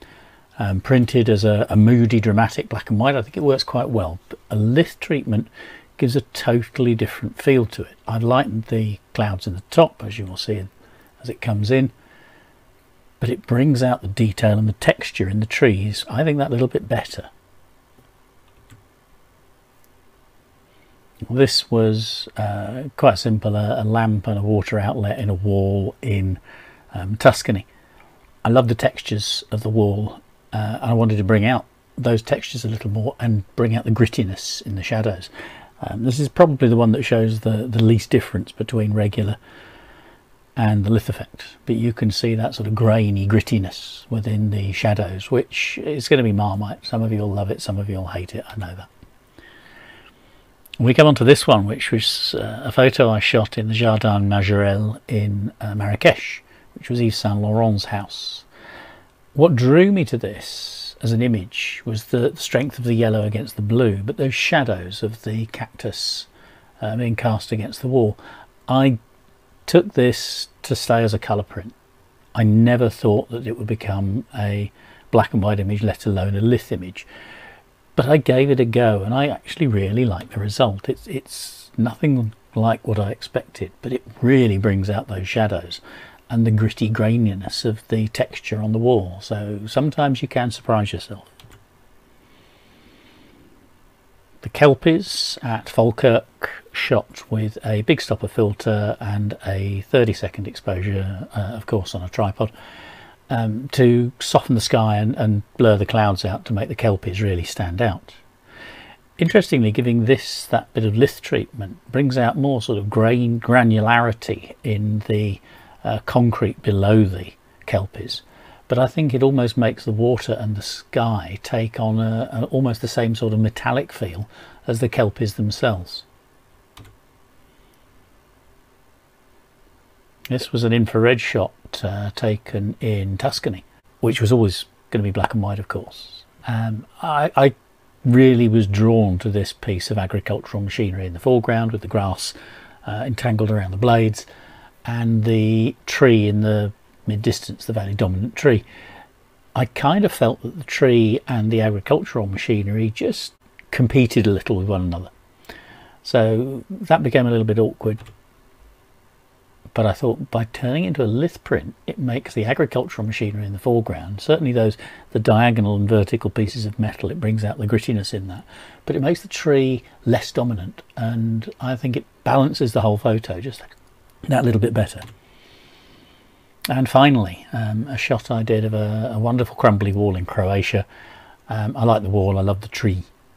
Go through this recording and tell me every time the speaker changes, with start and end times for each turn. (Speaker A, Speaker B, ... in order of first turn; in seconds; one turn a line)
Speaker A: 0.6-10.7
Speaker A: 11.2-11.9
Speaker A: 13.2-17.3
Speaker A: 21.3-26.4
Speaker A: 26.9-27.7
Speaker A: 28.4-39.4
Speaker A: 40.5-48.9
Speaker A: 50.8-58.5
Speaker A: 59.3-66.3
Speaker A: 66.8-69.0
Speaker A: 69.7-71.7
Speaker A: 72.3-77.1
Speaker A: 78.0-91.3
Speaker A: 94.4-102.5
Speaker A: 103.3-108.2
Speaker A: 109.2-126.0
Speaker A: 130.3-144.3
Speaker A: 144.8-148.6
Speaker A: 149.5-155.1
Speaker A: 156.0-158.0
Speaker A: 159.7-173.7
Speaker A: 174.2-175.0
Speaker A: 176.7-180.8
Speaker A: 181.5-183.1